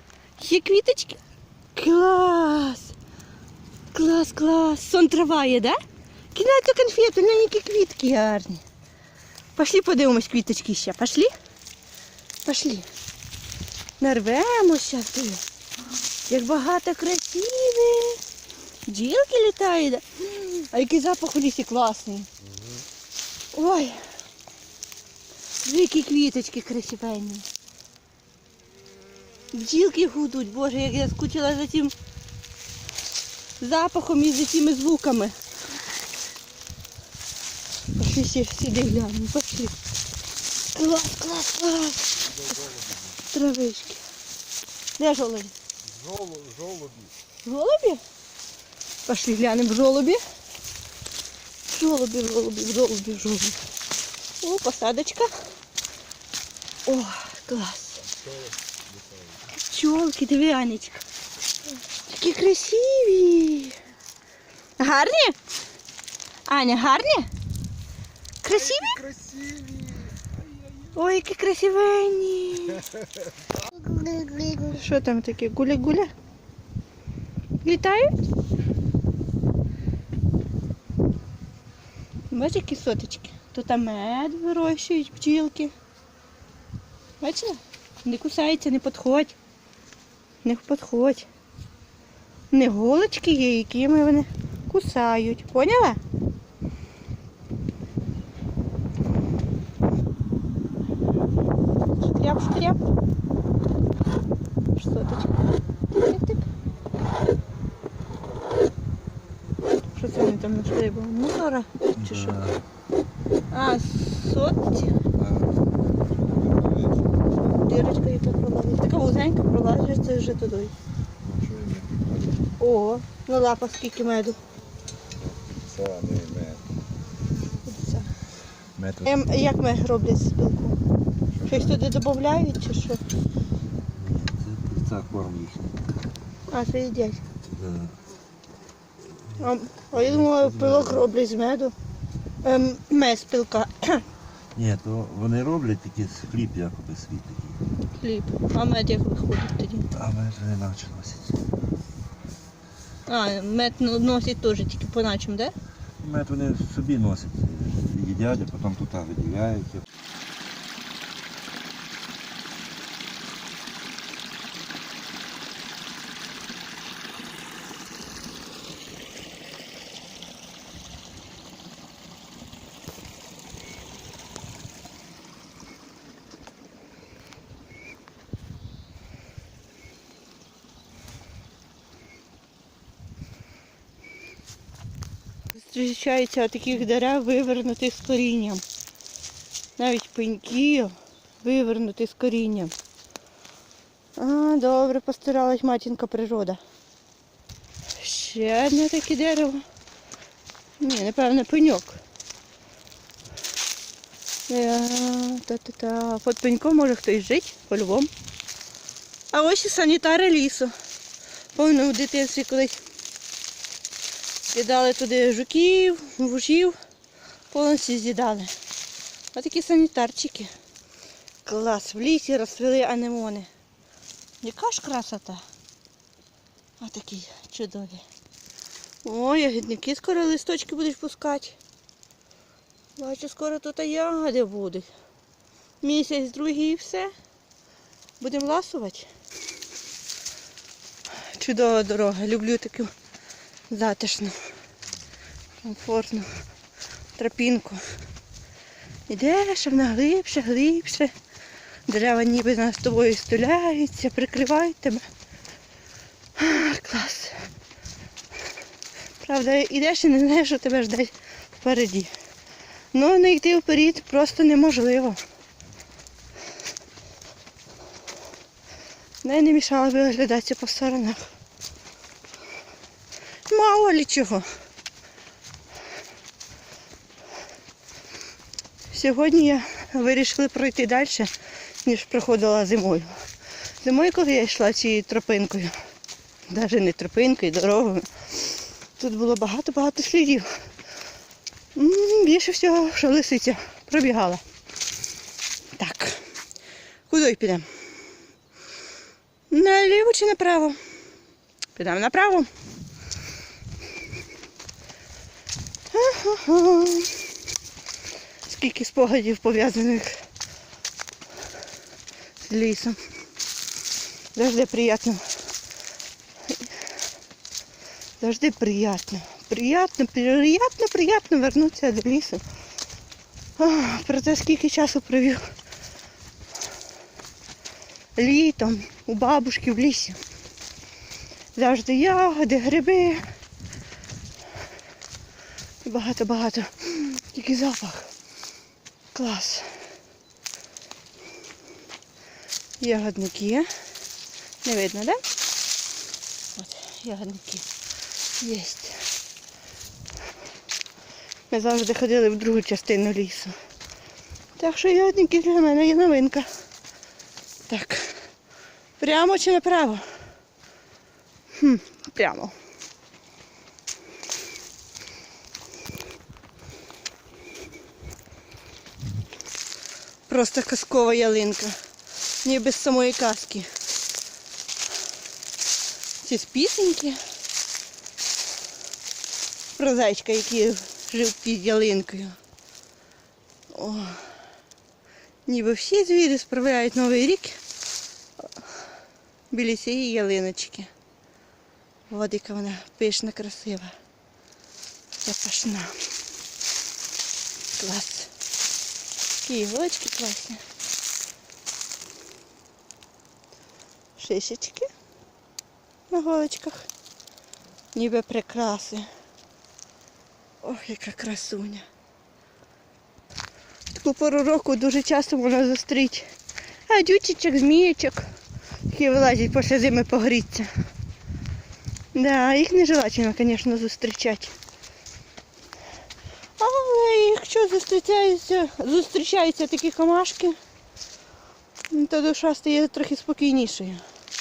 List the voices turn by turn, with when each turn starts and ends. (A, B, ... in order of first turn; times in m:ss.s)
0:00.4-0:01.2 A
0:01.8-0:02.9 A
0:03.9-0:05.8 A
0:06.3-0:08.6 A
0:09.6-0:11.3 A
0:12.4-0:12.9 A
0:14.0-0:15.4 A
0:16.3-0:18.2 A
0:18.9-0:22.3 A
0:23.5-0:24.0 A
0:25.6-0:27.4 A
0:29.5-0:31.9 A
0:33.6-0:35.4 A
0:38.0-0:39.8 A
0:40.7-0:42.3 A
0:43.3-0:44.0 A
0:45.0-0:45.6 A
0:46.0-0:47.1 B
0:46.3-0:46.8 C
0:47.4-0:48.0 A
0:49.1-0:50.2 A
0:51.7-0:53.6 A
0:54.4-0:55.4 A
0:56.9-0:58.0 A
0:59.6-1:01.0 A
1:02.1-1:03.8 A
1:04.8-1:05.4 A
1:06.5-1:07.3 A
1:08.4-1:09.0 A
1:09.1-1:09.8 B
1:10.9-1:12.9 A
1:13.7-1:16.1 A
1:17.6-1:18.1 A
1:22.3-1:25.7 A
1:27.2-1:29.4 A
1:30.4-1:31.3 A
1:32.5-1:36.0 A
1:42.0-1:42.8 A
1:44.8-1:45.4 A
1:45.9-1:46.5 A
1:49.9-1:52.4 A
1:52.0-1:52.6 C
1:53.5-1:54.9 A
1:55.2-1:57.0 C
1:57.6-2:00.7 A
2:01.2-2:02.1 C
2:02.6-2:04.4 A
2:05.2-2:06.6 C
2:05.8-2:06.4 B
2:07.7-2:08.1 A
2:08.8-2:09.1 C
2:09.0-2:10.8 A
2:11.4-2:13.0 A
2:13.9-2:15.8 C
2:16.5-2:17.2 A
2:17.5-2:18.0 C
2:19.4-2:21.7 A
2:19.9-2:21.1 C
2:22.4-2:24.0 A
2:24.6-2:27.6 C
2:28.0-2:29.9 A
2:29.9-2:31.4 C
2:33.1-2:35.5 A
2:36.0-2:39.8 C
3:05.5-3:08.6 A
3:09.8-3:12.7 A
3:14.2-3:16.6 A
3:18.0-3:19.6 A
3:20.8-3:22.0 A
3:24.5-3:28.1 A
3:29.3-3:30.7 A
3:31.6-3:32.8 A
3:34.5-3:36.8 A
3:37.5-3:38.5 A
3:39.3-3:40.5 A
3:41.4-3:43.5 A
3:44.4-3:45.4 A
3:46.8-3:48.0 A
3:49.0-3:51.6 A
3:53.0-3:54.9 A
3:55.8-3:57.1 A
3:58.2-3:59.1 A
4:01.3-4:02.9 A
4:03.7-4:04.4 A
4:05.6-4:06.3 A
4:07.2-4:07.8 A
4:09.1-4:11.1 A
4:11.9-4:15.0 A
4:16.4-4:17.4 A
4:19.2-4:22.1 A
4:22.9-4:25.2 A
4:29.2-4:31.3 A
4:33.5-4:34.5 A
4:38.9-4:41.3 A
4:41.8-4:43.1 A
4:43.8-4:45.8 A
4:46.5-4:50.5 A
4:51.8-4:54.4 A
4:55.8-4:56.2 A
4:57.1-4:57.7 A
4:59.5-5:00.8 A
5:01.8-5:02.5 A
5:05.9-5:07.2 A
5:08.4-5:10.2 A
5:12.4-5:13.0 A
5:14.3-5:15.3 A
5:18.2-5:22.4 A
5:23.6-5:25.4 A
5:28.2-5:30.2 A
5:31.6-5:33.3 A
5:35.8-5:38.1 A
5:39.1-5:39.7 A
5:42.8-5:43.7 A
5:44.6-5:45.2 A
5:46.6-5:47.7 A
5:48.4-5:49.0 A
5:51.5-5:53.6 A
5:54.6-5:56.5 A
5:57.7-5:58.2 A
5:59.0-6:00.0 A
6:01.6-6:02.5 A
6:10.3-6:11.8 A
6:12.4-6:13.7 A
6:16.2-6:17.2 A
6:19.8-6:22.4 A
6:23.7-6:24.2 A
6:25.5-6:27.6 A
6:29.5-6:30.9 A
6:32.1-6:33.9 A
6:35.2-6:36.0 A
6:37.8-6:38.3 A
6:39.4-6:40.6 A
6:44.2-6:44.9 A
6:46.1-6:46.9 A
6:47.9-6:49.1 A
6:50.6-6:51.8 A
6:53.9-6:56.3 A
6:56.9-6:58.2 A
6:58.9-7:00.7 A
7:02.1-7:04.6 A
7:06.6-7:10.6 A
7:11.9-7:14.0 A